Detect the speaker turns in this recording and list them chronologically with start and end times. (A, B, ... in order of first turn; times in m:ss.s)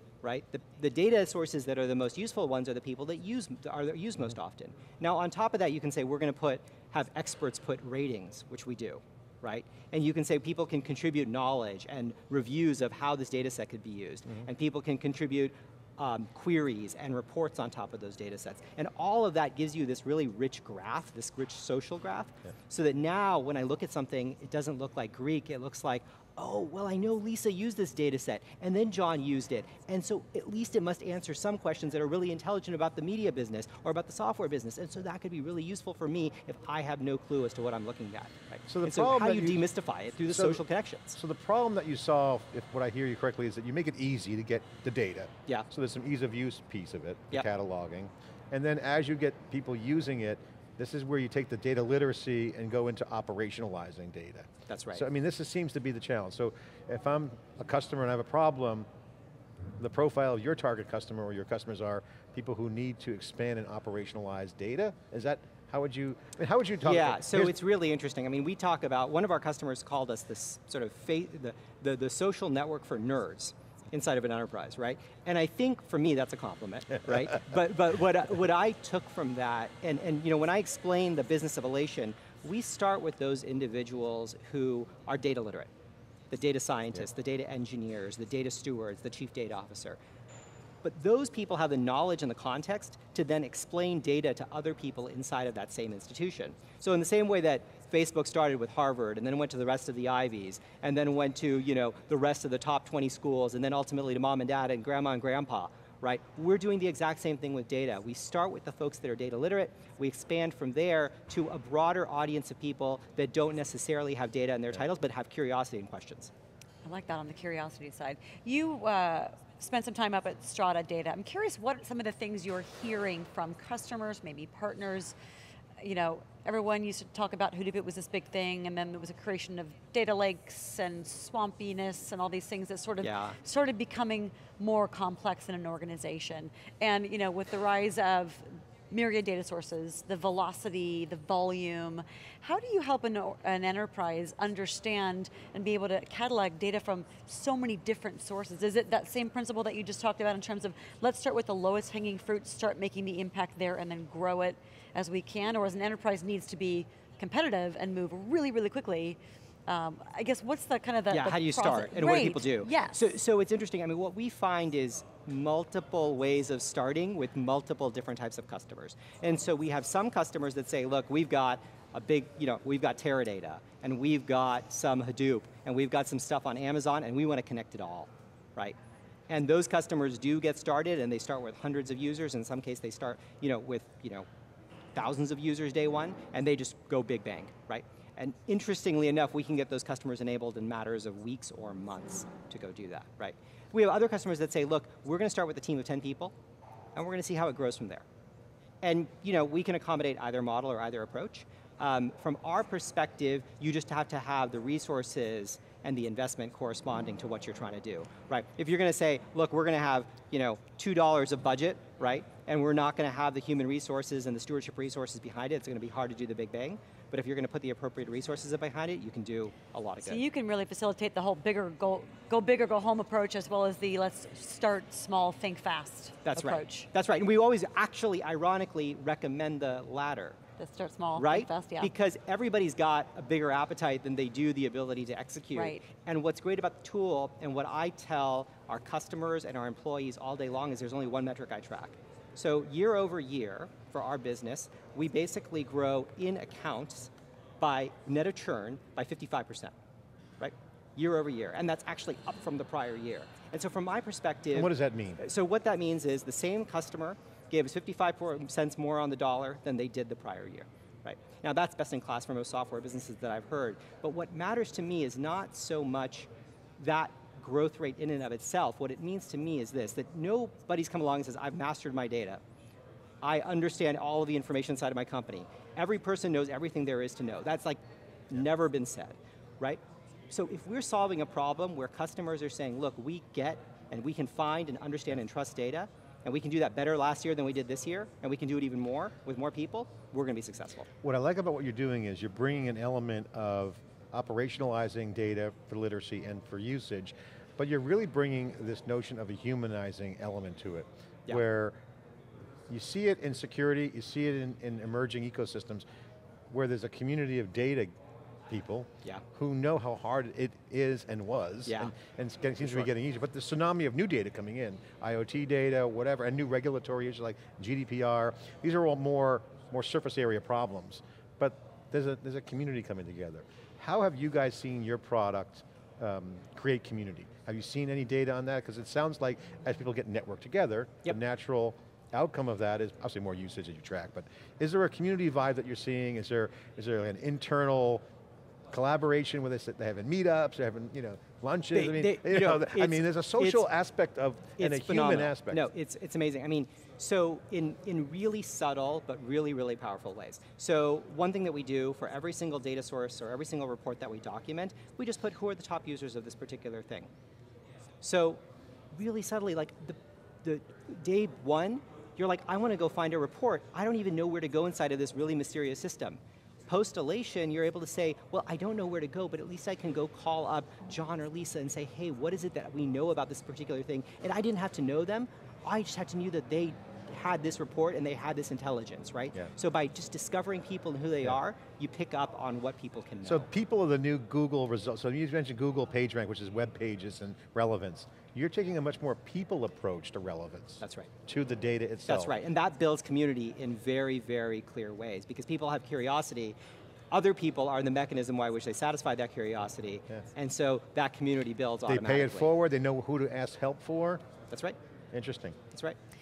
0:00.2-0:41.2 A
0:38.7-0:39.7 B
0:40.2-0:40.6 B
0:41.1-0:58.9 B
0:54.7-0:55.0 A
0:59.8-1:07.5 B
1:06.8-1:25.7 A
1:26.3-1:30.0 A
1:30.8-1:56.3 A
1:56.8-2:05.2 C
2:05.8-2:43.0 C
2:13.0-2:13.4 A
2:41.1-2:58.8 A
2:59.3-3:04.3 A
3:04.9-3:16.3 A
3:16.9-3:18.0 A
3:18.8-3:40.2 A
3:40.0-3:46.9 C
3:46.2-3:50.4 A
3:50.6-3:51.9 C
3:51.2-4:09.7 A
3:55.5-3:55.8 C
4:10.4-4:32.4 A
4:14.5-4:15.2 B
4:33.2-4:50.9 A
4:51.0-5:01.8 B
5:02.7-5:05.8 B
5:06.5-5:07.9 B
5:08.5-5:38.0 B
5:11.7-5:11.9 A
5:12.6-5:12.9 A
5:38.7-5:45.7 B
5:41.7-5:43.6 A
5:44.6-5:57.1 A
5:58.0-5:58.4 A
5:58.9-6:23.5 A
6:23.2-6:32.3 B
6:30.8-6:31.1 A
6:32.1-6:36.6 A
6:37.1-6:42.5 A
6:41.9-6:44.2 B
6:44.5-6:44.8 A
6:45.1-6:45.6 B
6:45.7-6:46.0 A